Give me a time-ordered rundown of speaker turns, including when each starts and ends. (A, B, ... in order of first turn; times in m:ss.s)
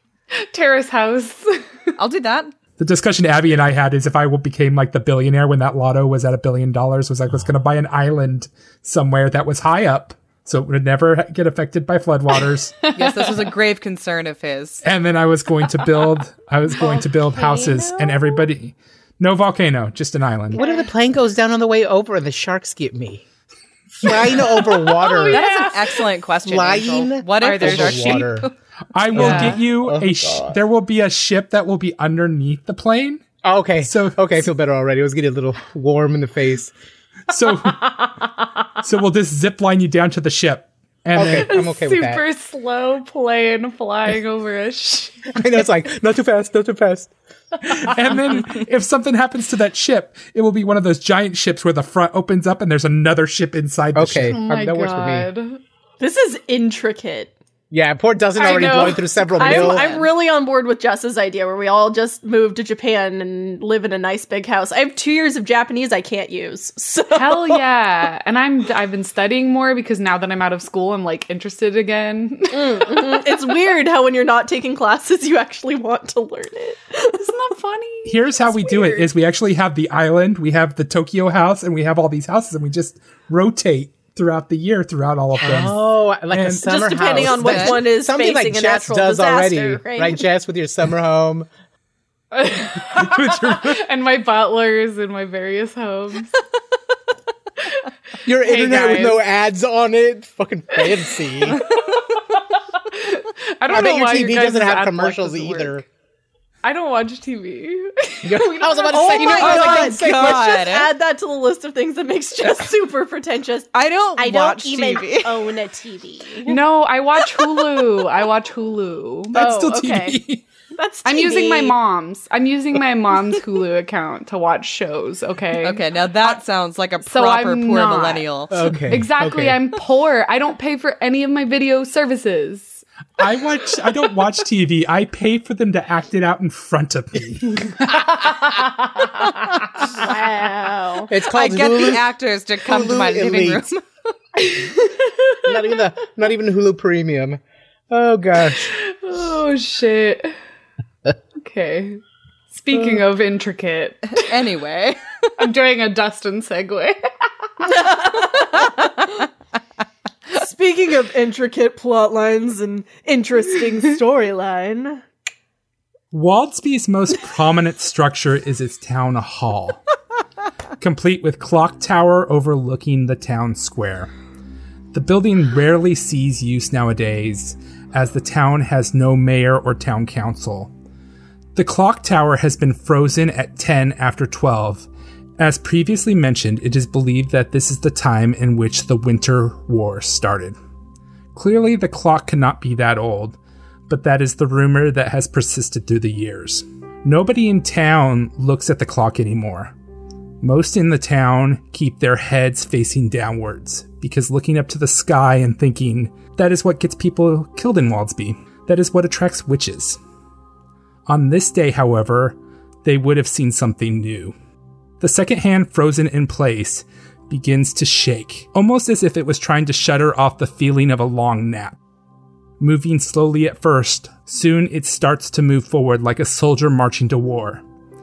0:00.3-0:01.6 A
0:02.0-0:02.5 B
0:02.8-0:12.8 C
0:12.8-0:13.4 A
0:12.9-0:14.8 B
0:14.8-0:20.6 C
0:16.8-0:18.4 A
0:20.5-0:23.2 D
0:24.0-0:25.4 D
0:24.8-0:26.0 A
0:25.2-0:28.5 B
0:26.4-0:28.5 D
0:27.4-0:28.3 A
0:28.9-0:33.2 C
0:29.1-0:29.6 A
0:29.1-0:30.6 D
0:33.4-0:36.7 D
0:33.8-0:34.5 C
0:37.3-0:38.1 C
0:37.7-0:38.1 A
0:38.8-0:41.6 C
0:41.1-0:42.2 D
0:41.2-0:45.4 A
0:45.3-0:47.1 D
0:47.6-0:54.4 C
0:53.9-0:55.3 D
0:54.3-0:55.6 A
0:56.0-0:57.3 E
0:57.7-0:59.9 D
0:58.4-1:07.6 E
0:58.4-0:59.8 A
0:59.6-1:00.1 B
1:07.1-1:13.3 A
1:12.5-1:17.3 E
1:17.2-1:19.0 A
1:18.1-1:27.5 C
1:25.4-1:31.5 D
1:26.6-1:30.2 E
1:27.4-1:27.8 B
1:32.3-1:36.4 A
1:32.9-1:33.8 C
1:37.6-1:39.2 A
1:38.2-1:41.6 D
1:41.6-1:45.8 A
1:43.7-1:45.8 D
1:46.6-1:49.4 A
1:48.2-1:50.6 D
1:48.8-1:56.5 E
1:49.0-1:50.9 B
1:53.7-1:55.5 B
1:56.4-1:59.4 A
1:59.3-2:00.2 E
1:59.3-2:00.4 C
2:00.7-2:01.8 E
2:01.1-2:06.4 A
2:05.6-2:08.5 B
2:07.0-2:12.8 A
2:08.5-2:09.6 D
2:13.2-2:18.1 C
2:17.9-2:19.6 A
2:19.8-2:21.1 E
2:21.1-2:22.1 D
2:21.3-2:23.8 B
2:22.6-2:23.7 D
2:24.4-2:25.5 A
2:25.4-2:28.7 D
2:28.5-2:30.4 A
2:31.4-2:34.3 A
2:34.2-2:35.3 B
2:35.4-2:37.8 A
2:40.3-2:45.0 E
2:46.1-2:49.8 C
2:50.8-2:54.1 C
2:54.9-3:00.7 C
3:01.6-3:04.9 C
3:05.4-3:10.6 C
3:11.3-3:13.4 C
3:13.9-3:19.7 C
3:20.4-3:30.0 C
3:31.1-3:34.3 C
3:35.0-3:41.8 C
3:42.6-3:47.6 C